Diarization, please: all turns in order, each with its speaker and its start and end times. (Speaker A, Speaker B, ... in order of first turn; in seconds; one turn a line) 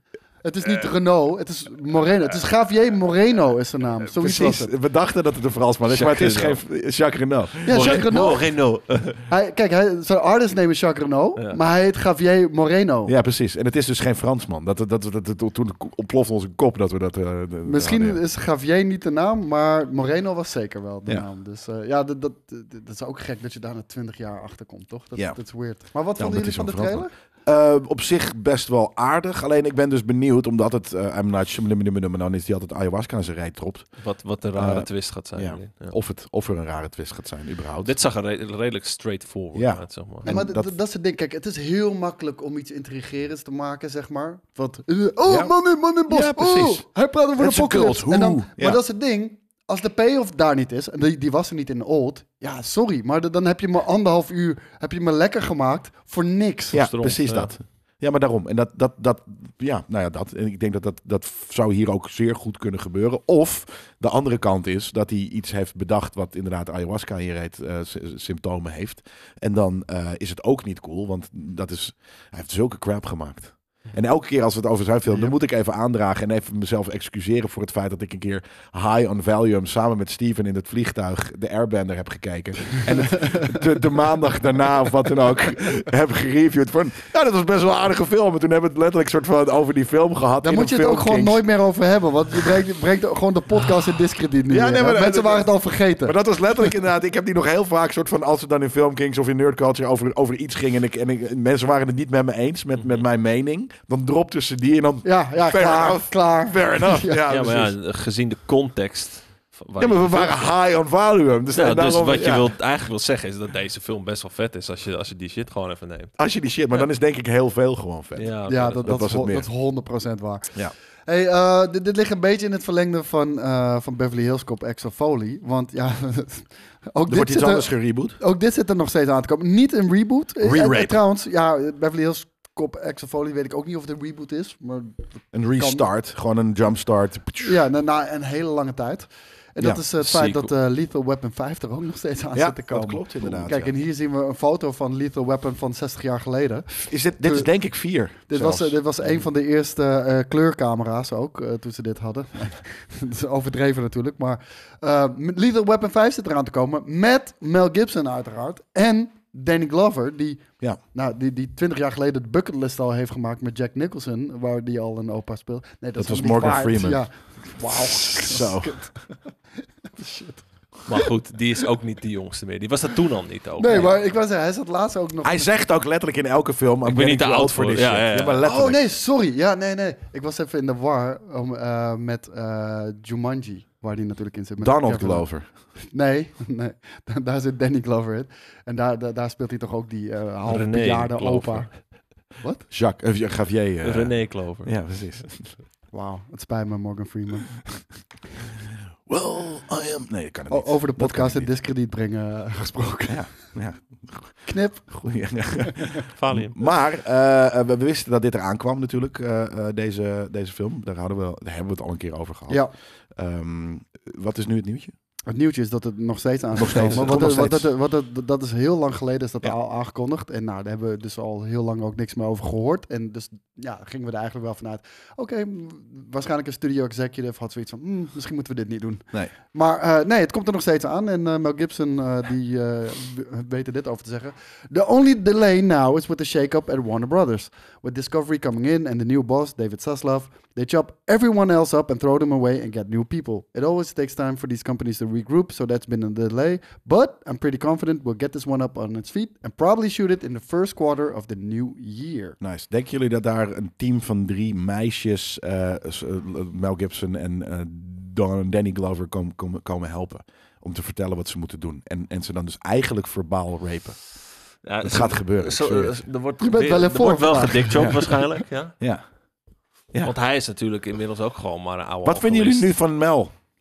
Speaker A: 0.4-4.7
Speaker B: 4.1-8.3
Speaker C: 5.9-6.6
Speaker A: 7.7-8.5
Speaker C: 7.7-9.2
Speaker A: 9.3-13.1
Speaker B: 13.1-18.2
Speaker A: 17.6-27.1
Speaker B: 26.2-33.9
Speaker C: 34.0-36.0
Speaker B: 34.5-37.9
Speaker C: 37.8-40.3
Speaker B: 39.5-40.7
Speaker A: 40.2-56.8
Speaker B: 45.3-45.5
Speaker B: 46.1-48.8
Speaker B: 56.7-91.4
Speaker C: 56.7-57.5
Speaker A: 90.4-96.2
Speaker B: 94.5-107.8
Speaker C: 102.8-103.0
Speaker A: 105.0-107.2
Speaker C: 107.3-110.5
Speaker B: 109.8-112.5
Speaker C: 111.5-116.2
Speaker B: 116.2-119.5
Speaker C: 118.2-118.9
Speaker A: 118.5-120.6
Speaker A: 121.1-135.9
Speaker B: 127.1-128.2
Speaker B: 130.4-131.0
Speaker B: 135.3-137.6
Speaker A: 137.4-147.5
Speaker C: 140.0-140.5
Speaker B: 142.3-143.7
Speaker B: 146.9-148.8
Speaker A: 148.3-169.0
Speaker B: 166.0-167.1
Speaker B: 167.6-168.9
Speaker A: 169.9-171.0
Speaker C: 170.9-173.9
Speaker A: 173.6-175.5
Speaker B: 175.2-178.8
Speaker C: 176.8-178.4
Speaker A: 178.4-191.8
Speaker B: 184.6-185.5
Speaker C: 190.5-191.8
Speaker A: 192.3-192.7
Speaker B: 192.7-195.6
Speaker C: 193.8-194.7
Speaker A: 195.9-197.5
Speaker B: 199.1-201.5
Speaker A: 200.5-203.3
Speaker B: 203.1-214.9
Speaker A: 204.5-204.9
Speaker A: 205.6-206.0
Speaker C: 206.2-206.6
Speaker A: 215.3-252.4
Speaker B: 216.5-217.7
Speaker B: 252.4-264.0
Speaker C: 264.6-268.8
Speaker B: 264.8-266.0
Speaker A: 266.4-268.3
Speaker C: 270.0-272.7
Speaker B: 272.0-273.4